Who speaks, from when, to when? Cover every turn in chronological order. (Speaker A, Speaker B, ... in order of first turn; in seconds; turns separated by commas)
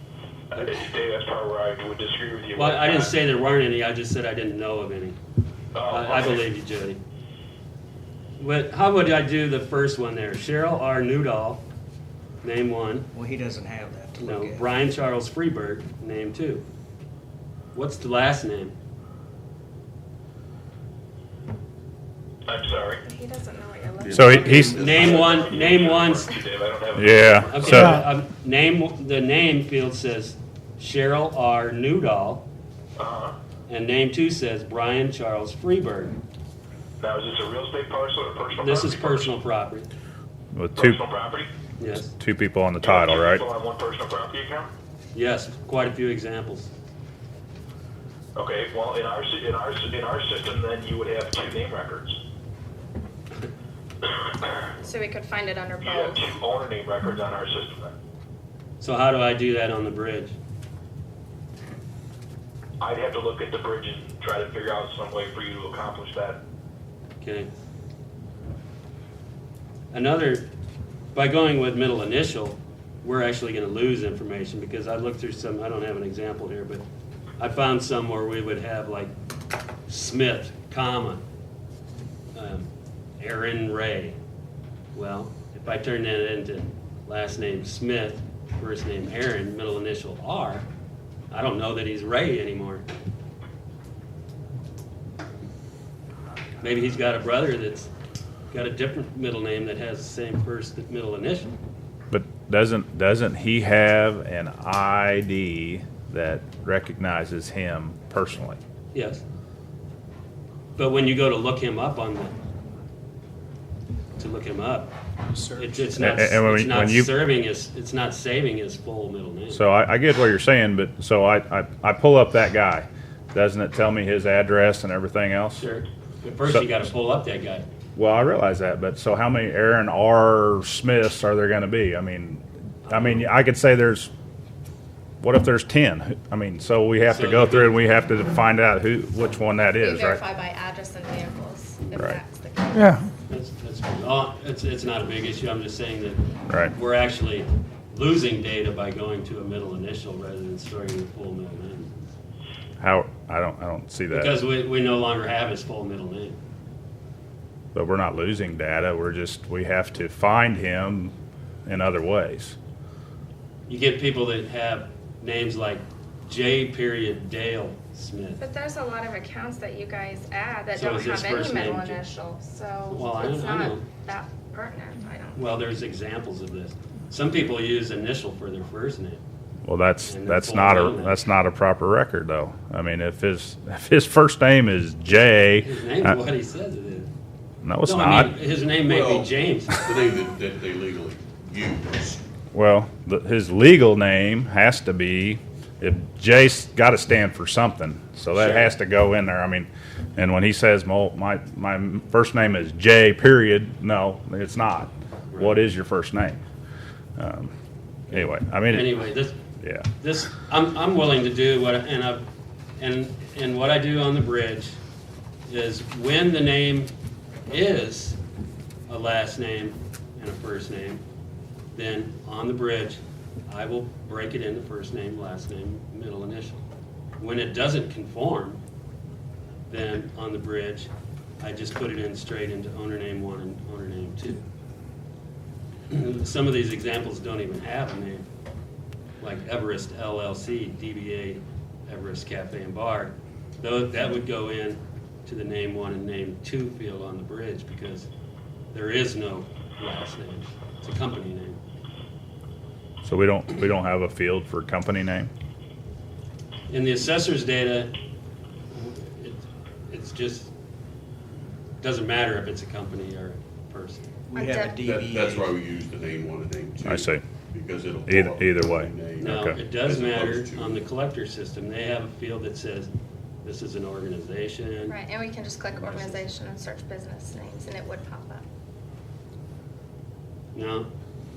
Speaker A: 0.5-3.1, Speaker B: 2.5-5.2, Speaker A: 5.7-6.4, Speaker B: 5.9-7.0, Speaker B: 8.4-11.6, Speaker B: 12.4-13.1, Speaker C: 13.1-14.7, Speaker B: 14.2-16.6, Speaker B: 17.7-18.7, Speaker A: 22.5-23.0, Speaker D: 23.0-25.3, Speaker E: 24.0-25.4, Speaker F: 24.1-24.8, Speaker B: 24.6-26.3, Speaker A: 24.9-28.0, Speaker F: 26.9-28.0, Speaker B: 27.5-32.4, Speaker A: 33.0-33.4, Speaker B: 33.7-36.2, Speaker A: 37.0-39.3, Speaker B: 38.6-39.9, Speaker F: 40.5-41.0, Speaker A: 40.8-41.5, Speaker B: 41.8-42.1, Speaker F: 42.0-43.4, Speaker A: 42.8-44.7, Speaker B: 45.1-46.7, Speaker A: 48.4-52.2, Speaker D: 54.8-56.2, Speaker A: 55.8-57.9, Speaker B: 58.8-60.3, Speaker A: 62.8-66.4, Speaker B: 67.2-67.5, Speaker B: 69.9-70.5, Speaker B: 71.1-76.8, Speaker B: 77.4-79.1, Speaker B: 79.9-81.2, Speaker B: 82.3-82.7, Speaker B: 83.2-84.2, Speaker B: 84.9-90.7, Speaker B: 91.3-92.8, Speaker B: 96.6-97.9, Speaker B: 98.5-101.5, Speaker F: 102.1-108.6, Speaker B: 108.9-109.2, Speaker B: 110.8-112.3, Speaker B: 114.2-119.7, Speaker F: 115.9-117.1, Speaker F: 119.5-125.7, Speaker B: 125.6-127.7, Speaker F: 127.9-134.1, Speaker B: 132.9-133.3, Speaker F: 135.2-140.2, Speaker B: 137.1-137.8, Speaker D: 139.8-142.9, Speaker B: 143.3-151.9, Speaker F: 146.5-146.7, Speaker F: 152.8-154.3, Speaker B: 154.1-156.4, Speaker F: 157.7-161.1, Speaker F: 161.7-162.6, Speaker B: 163.7-168.4, Speaker D: 168.4-175.5, Speaker B: 170.7-172.1, Speaker B: 172.9-173.8, Speaker B: 175.3-179.2, Speaker F: 179.6-186.1, Speaker B: 180.1-181.2, Speaker B: 185.6-187.1, Speaker F: 187.6-188.3, Speaker B: 187.8-189.8, Speaker E: 188.7-192.2, Speaker F: 192.5-206.4, Speaker B: 198.3-198.7, Speaker B: 205.3-205.6, Speaker F: 207.2-207.5, Speaker F: 208.1-209.0, Speaker B: 208.1-209.3, Speaker F: 209.6-209.9, Speaker B: 210.0-212.2, Speaker B: 212.8-214.8, Speaker B: 215.5-216.9, Speaker B: 217.5-218.2, Speaker B: 218.9-221.0, Speaker B: 221.7-226.6, Speaker B: 227.2-228.6, Speaker B: 229.7-234.4, Speaker B: 235.9-238.3, Speaker B: 239.2-248.1, Speaker B: 248.7-251.6, Speaker F: 253.0-255.3, Speaker B: 256.7-258.0, Speaker B: 258.7-260.5, Speaker B: 261.8-264.1, Speaker D: 264.3-264.8, Speaker C: 264.3-265.6, Speaker E: 264.8-270.8, Speaker F: 266.8-267.2, Speaker F: 268.1-269.6, Speaker B: 269.2-272.9, Speaker B: 273.4-275.0, Speaker D: 274.9-278.4, Speaker B: 275.7-276.2, Speaker B: 280.5-280.9